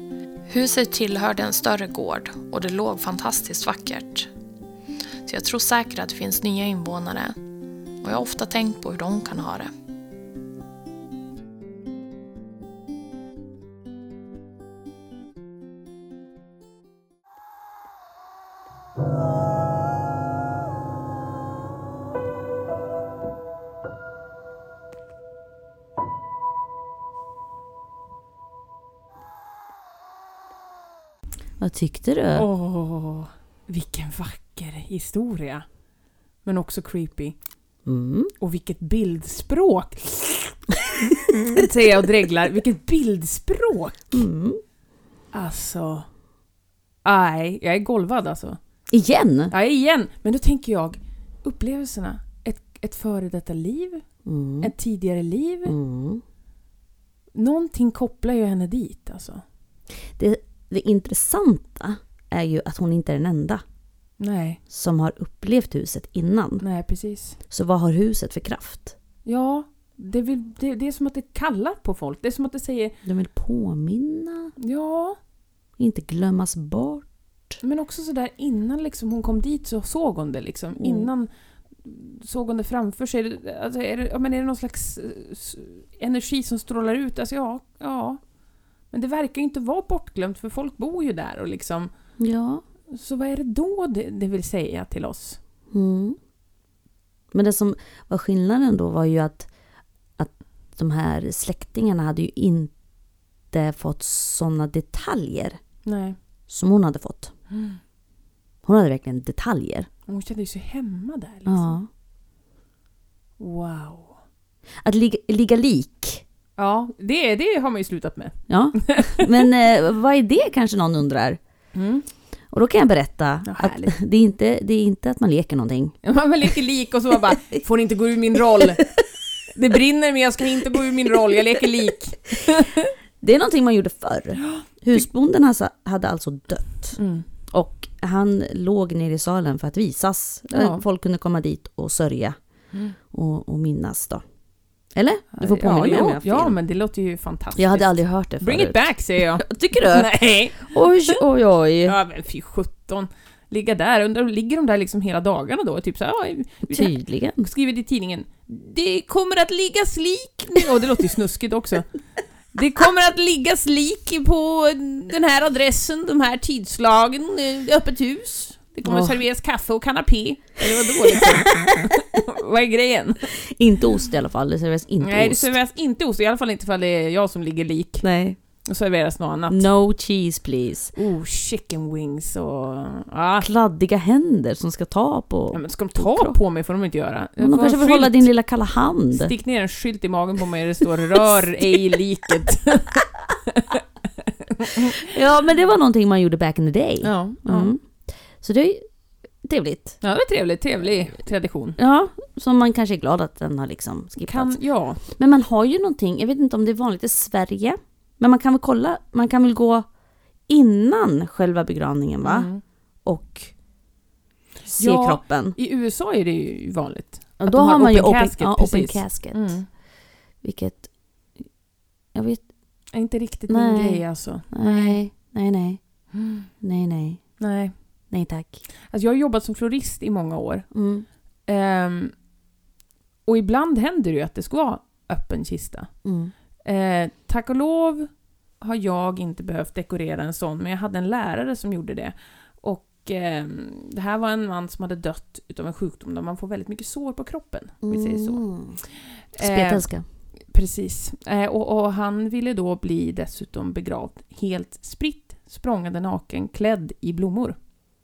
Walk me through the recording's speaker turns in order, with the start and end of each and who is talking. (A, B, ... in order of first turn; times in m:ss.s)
0:00.5-0:04.3 A
0:05.2-0:07.4 A
0:08.0-0:09.7 A
0:31.6-0:32.5 B
0:32.3-0:35.6 C
0:36.4-0:37.3 C
0:37.8-0:38.3 B
0:38.4-0:44.2 C
0:44.1-0:44.6 B
0:45.3-0:46.1 C
0:47.0-0:48.6 C
0:48.9-0:49.5 B
0:49.5-0:54.0 C
0:54.2-0:54.7 B
0:54.6-0:55.7 C
0:55.6-0:56.2 B
0:57.3-0:59.4 C
1:00.2-1:03.6 B
1:04.2-1:04.6 C
1:04.7-1:06.6 B
1:06.6-1:07.4 C
1:07.5-1:09.0 B
1:09.2-1:13.0 C
1:13.0-1:14.5 B
1:14.6-1:15.2 C
1:15.8-1:17.0 B
1:17.6-1:21.3 C
1:20.8-1:21.1 B
1:21.8-1:28.2 C
1:28.9-1:31.9 C
1:32.2-1:32.6 B
1:32.9-1:35.4 C
1:35.7-1:36.2 B
1:37.3-1:39.5 B
1:40.2-1:42.7 B
1:43.5-1:45.6 B
1:45.8-1:46.2 C
1:46.5-1:47.3 B
1:47.5-1:47.8 C
1:48.6-1:49.9 B
1:50.1-1:51.7 C
1:51.4-1:51.9 B
1:53.4-1:54.2 C
1:54.8-1:56.2 B
1:56.6-1:59.4 C
1:58.5-2:01.4 B
2:01.7-2:02.0 C
2:02.5-2:06.0 B
2:03.4-2:03.9 C
2:06.0-2:08.8 C
2:09.5-2:12.9 C
2:13.2-2:17.0 B
2:17.0-2:17.2 C
2:17.5-2:22.4 B
2:20.5-2:20.8 C
2:23.1-2:24.2 B
2:25.0-2:26.5 B
2:25.3-2:31.2 C
2:27.6-2:32.0 B
2:31.8-2:41.9 C
2:36.7-2:37.5 B
2:42.5-2:53.3 C
2:48.8-2:49.2 B
2:53.4-2:55.5 B
2:55.0-2:58.0 C
2:58.0-2:58.4 B
2:58.6-2:59.6 C
2:59.5-3:00.9 B
3:00.9-3:03.5 C
3:03.4-3:06.4 B
3:05.5-3:08.3 C
3:07.4-3:09.3 B
3:09.1-3:13.8 C
3:14.5-3:15.0 C
3:15.0-3:17.8 B
3:17.0-3:17.7 C
3:18.4-3:18.9 B
3:19.4-3:20.0 B
3:20.0-3:21.8 C
3:21.8-3:24.5 B
3:24.2-3:25.0 C
3:25.0-3:29.8 B
3:30.5-3:32.5 B
3:32.2-3:32.6 C
3:33.0-3:33.5 B
3:34.7-3:35.6 B
3:34.7-3:39.7 C
3:37.4-3:39.5 B
3:40.4-3:40.9 B
3:42.1-3:42.4 B
3:42.9-3:44.9 C
3:43.5-3:45.8 B
3:46.1-3:46.5 C
3:46.6-3:47.3 B
3:47.4-3:47.7 C
3:48.1-3:48.6 B
3:48.9-3:50.7 C
3:50.7-3:51.0 B
3:51.4-3:52.1 C
3:53.2-3:55.9 C
3:56.0-3:56.3 B
3:56.6-3:58.1 C
3:58.6-4:08.4 C
4:07.8-4:08.8 B
4:09.3-4:09.8 C
4:09.4-4:10.0 B
4:10.5-4:17.6 C